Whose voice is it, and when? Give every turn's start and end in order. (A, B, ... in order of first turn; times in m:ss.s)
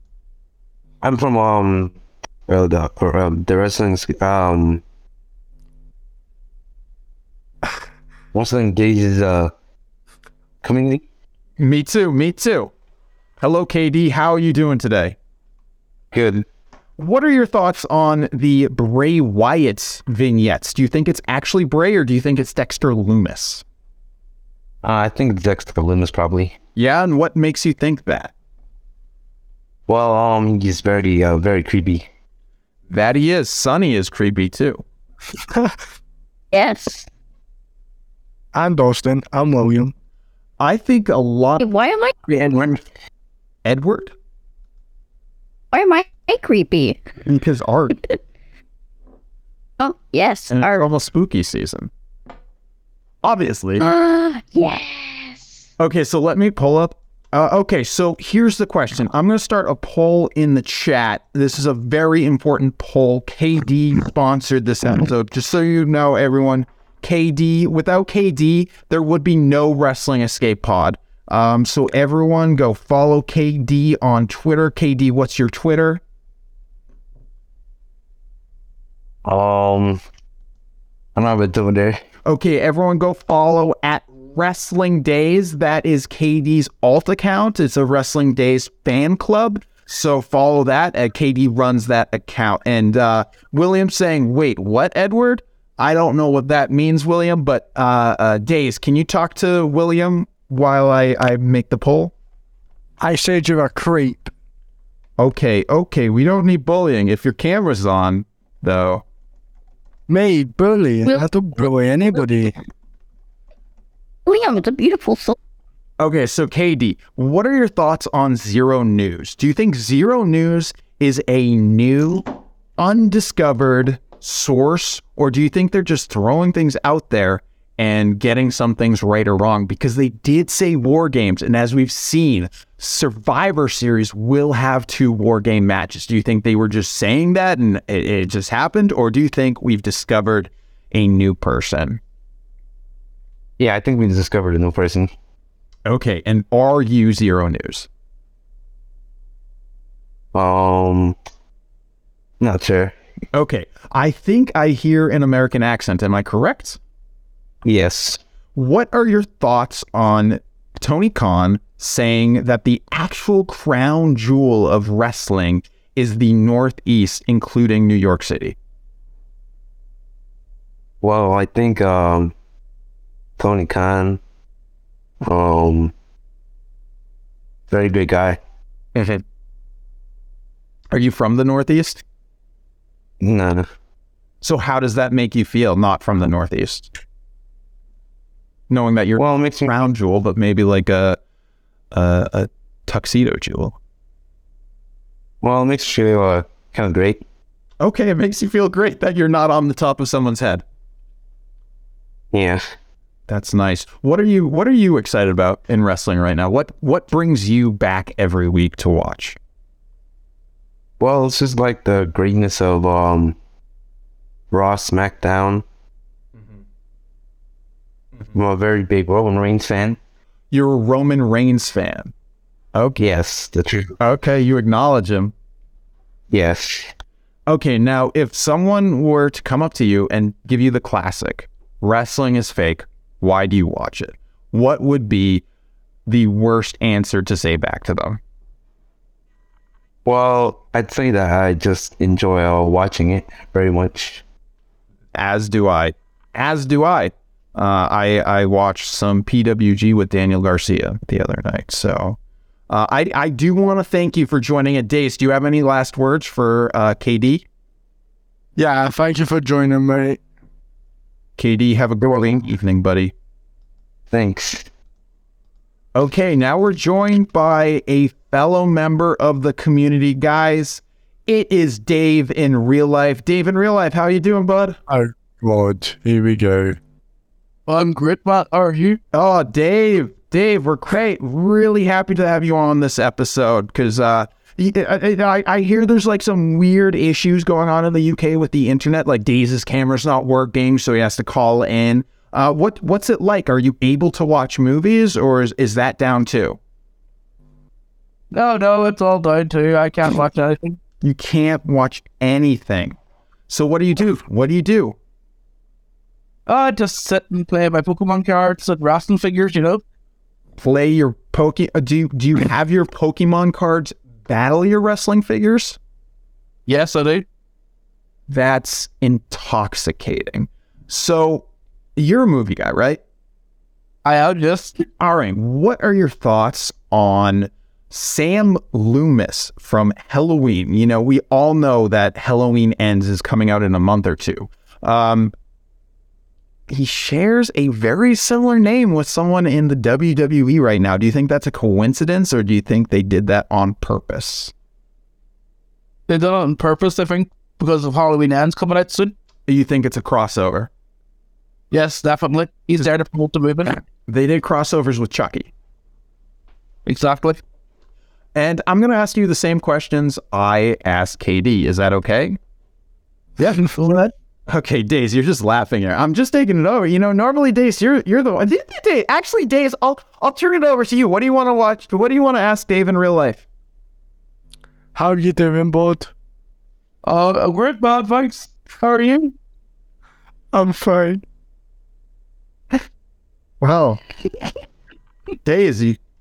0:01.0-0:01.9 A
0:02.5-0:04.8 A
0:08.3-0:09.5 A
0:10.6-0:11.0 A
0:11.6-0:12.7 B
0:13.4-0:15.2 B
0:16.1-0:16.4 A
0:17.0-0:23.6 B
0:24.8-0:26.6 A
0:26.8-0:28.3 B
0:29.9-0:32.1 A
0:32.9-0:34.8 B
0:35.5-0:35.8 C
0:36.5-0:37.1 D
0:38.5-0:39.9 C
0:40.6-0:41.6 B
0:41.6-0:42.1 D
0:42.3-0:42.8 A
0:43.6-0:44.1 B
0:45.7-0:47.0 D
0:47.2-0:48.0 B
0:49.8-0:50.8 D
0:50.5-0:51.9 B
0:53.2-0:53.8 B
0:53.8-0:55.6 D
0:55.8-1:16.0 B
1:19.2-1:20.0 A
1:21.1-1:22.0 A
1:22.2-1:42.1 B
1:43.0-1:44.3 C
1:45.2-1:49.0 B
1:50.1-1:52.5 C
1:54.2-1:55.4 D
1:56.0-2:02.3 B
2:02.8-2:22.0 B
2:23.6-2:25.1 A
2:25.8-2:27.9 B
2:30.3-2:31.2 A
2:32.4-2:32.9 A
2:33.3-2:36.8 B
2:37.6-2:38.2 A
2:38.6-2:48.6 B
2:51.0-2:52.3 A
2:53.4-2:54.2 A
2:55.2-2:55.9 A
2:57.7-2:58.4 A
3:00.9-3:02.0 B
3:03.2-3:03.7 A
3:04.4-3:06.9 B
3:08.7-3:11.2 B
3:09.2-3:09.7 A
3:11.9-3:13.8 B
3:15.4-3:17.2 A
3:17.8-3:20.6 B
3:22.3-3:22.7 A
3:23.3-3:29.4 B
3:31.0-3:33.4 A
3:34.5-3:35.6 A
3:38.3-3:40.0 A
3:40.5-3:42.1 B
3:42.7-3:43.0 B
3:43.0-3:43.9 A
3:44.0-3:45.3 B
3:46.3-3:46.9 A
3:47.5-3:55.4 B
3:56.0-3:58.2 B
4:00.0-4:04.2 A
4:05.1-4:12.2 B
4:12.7-4:17.4 B
4:18.6-4:20.2 C
4:21.4-4:23.1 B
4:24.1-4:24.7 A
4:25.9-4:34.8 B
4:34.9-4:36.8 C
4:37.7-4:39.0 E
4:39.1-4:56.6 B
4:58.3-5:00.8 E
5:01.0-5:03.0 B
5:03.5-5:05.0 B
5:06.5-5:09.8 E
5:10.6-5:15.8 B
5:16.7-5:17.2 E
5:18.3-5:23.0 B
5:24.0-5:24.8 E
5:25.0-5:35.3 B
5:36.7-5:44.5 B
5:46.1-5:49.1 E
5:49.5-5:50.7 B
5:51.7-5:53.8 E
5:54.1-5:55.5 B
5:56.8-5:57.4 E
5:58.3-6:02.4 B
6:03.4-6:03.8 B
6:03.7-6:04.1 E
6:04.5-6:13.4 B
6:14.9-6:16.1 C
6:17.0-6:19.3 E
6:20.5-6:21.2 C
6:23.6-6:24.0 B
6:25.4-6:26.0 B